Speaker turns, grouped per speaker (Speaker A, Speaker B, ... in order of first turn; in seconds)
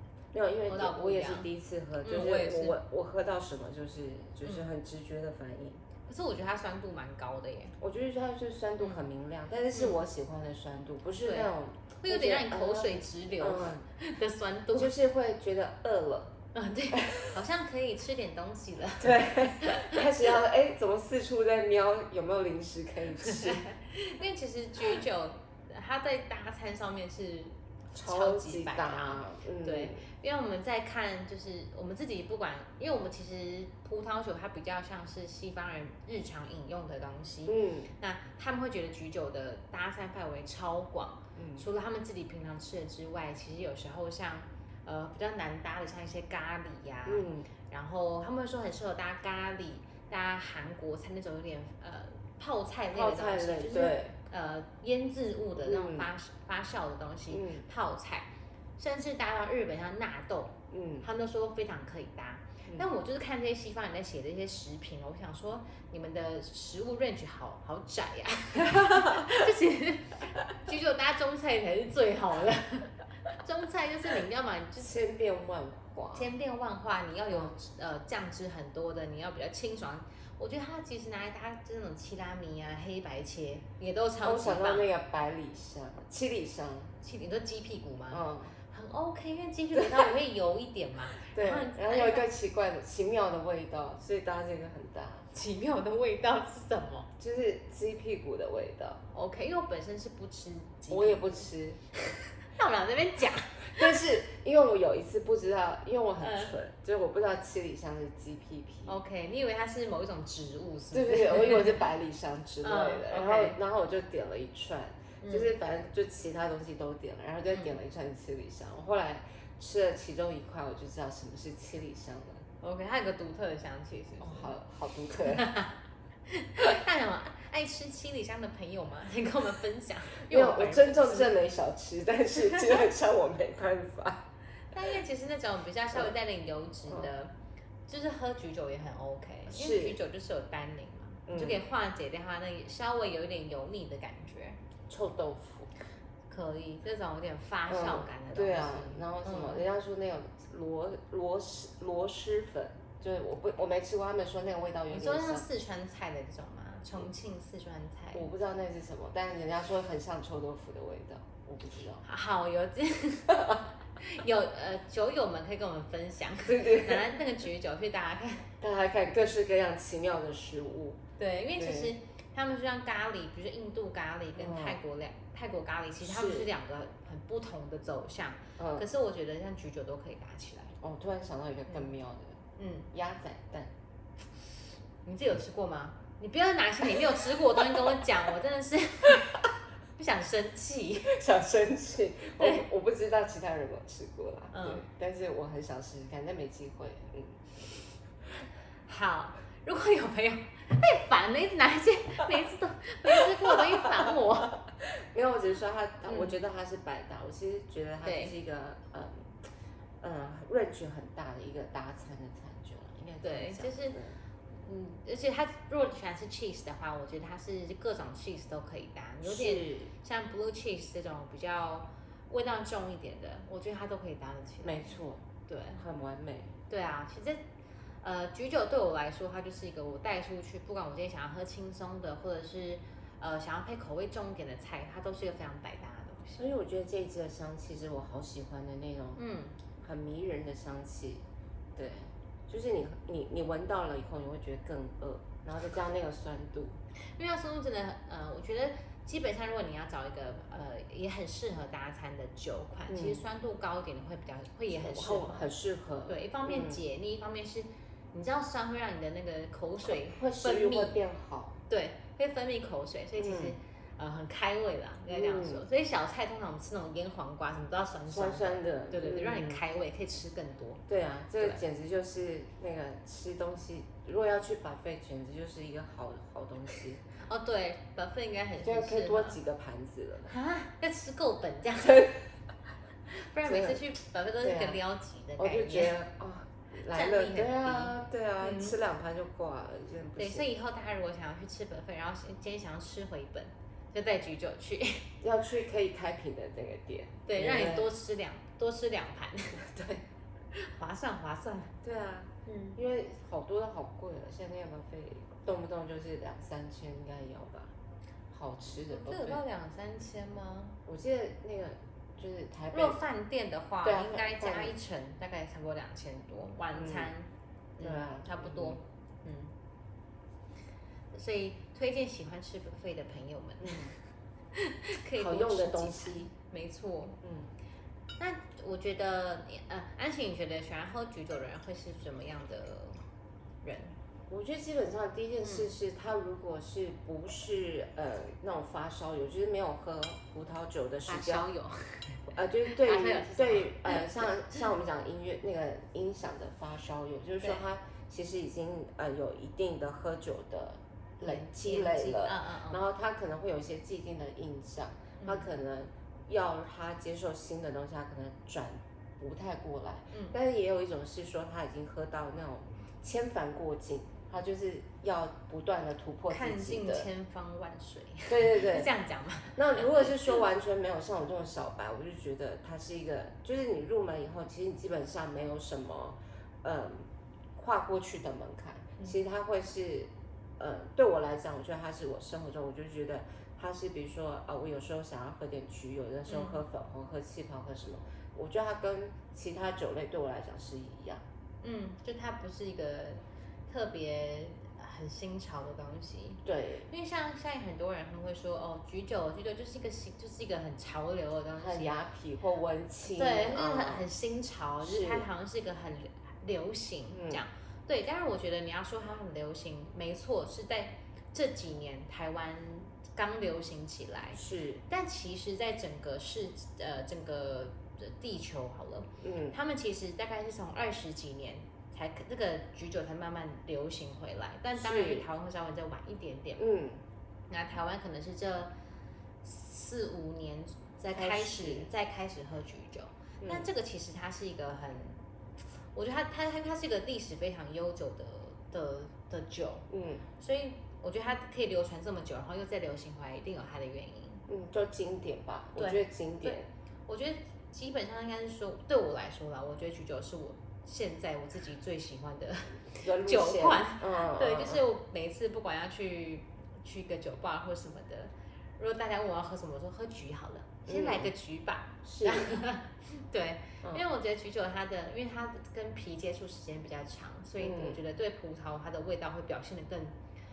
Speaker A: 0.3-5.8, 7.8-13.9, 14.7-16.4, 16.9-17.4, 19.0-23.7, 27.9-30.0, 37.5-37.9, 41.4-41.7, 47.1-47.5, 52.9-54.1, 55.6-56.1, 57.3-57.6, 60.7-61.1, 74.8-76.3, 84.2-86.9, 88.1-88.6, 89.8-90.1, 91.2-95.3, 97.2-99.0, 100.9-101.8, 103.6-109.0, 110.9-122.4, 124.2-125.5, 130.3-134.3, 139.5-140.0, 141.3-141.6, 144.9-145.7, 147.7-155.4, 158.1-162.0, 163.3-163.6, 166.5-167.2, 168.6-171.0, 171.6-171.9, 174.4-174.8, 176.0-176.5, 178.6-178.9, 180.8-182.4, 182.9-183.7, 191.1-198.4, 204.8-209.4, 210.0-214.2, 219.2-219.9, 224.6-225.2, 225.8-226.5, 236.4-239.2, 239.8-241.2, 241.8-246.8, 252.9-253.2, 254.8-256.8, 259.9-261.6, 263.2-263.6, 265.1-265.6, 268.1-269.6, 270.9-277.0, 278.6-280.3, 281.8-282.1, 283.4-283.8, 284.4-284.8, 285.4-290.5, 295.2-297.9, 299.6-300.0, 301.8-307.7, 308.3-309.4, 310.9-313.0, 313.8-314.7, 316.7-317.1, 317.8-318.8, 323.6-323.9, 325.2-326.3, 327.2-327.5, 334.3-341.5, 342.3-367.1, 368.3-368.9, 369.5-391.2, 396.4-396.9, 401.6-404.1, 404.8-405.3, 407.1-407.4, 414.4-414.8, 419.2-419.6, 424.8-425.3, 426.6-427.0, 431.1-431.9, 433.4-433.7, 439.9-440.2, 444.5-446.7, 452.9-454.8, 460.9-461.3, 462.0-462.6, 467.6-468.0
Speaker B: 0.7-1.5, 2.0-2.8, 6.1-7.8, 9.7-10.0, 11.2-14.9, 16.5-20.1, 23.2-74.9, 76.2-84.9, 87.0-92.3, 95.3-97.1, 99.1-101.5, 102.0-104.0, 106.2-106.5, 108.9-111.8, 112.6-113.6, 115.2-115.5, 122.6-124.6, 125.2-125.8, 126.3-131.4, 134.7-137.3, 137.9-144.6, 146.3-149.6, 154.9-158.3, 162.0-168.5, 171.2-180.8, 182.6-182.9, 185.1-189.4, 190.0-191.2, 194.5-194.8, 198.9-204.6, 206.1-206.3, 208.0-208.3, 213.2-214.0, 214.5-224.9, 225.5-225.8, 226.7-227.4, 228.0-236.4, 239.2-239.6, 247.2-255.5, 256.1-261.0, 261.7-270.8, 277.2-279.4, 280.3-282.2, 283.1-286.0, 286.9-288.8, 290.2-295.1, 297.3-299.7, 300.5-301.8, 302.5-302.8, 308.9-310.8, 312.7-317.3, 317.8-319.5, 321.1-324.0, 324.5-327.2, 328.2-333.0, 333.6-333.9, 335.4-335.7, 341.1-344.6, 351.2-352.8, 355.2-355.5, 366.3-370.4, 386.3-386.6, 391.6-401.9, 403.1-426.6, 427.5-428.7, 429.4-435.2, 435.9-439.9, 440.4-444.4, 445.8-470.1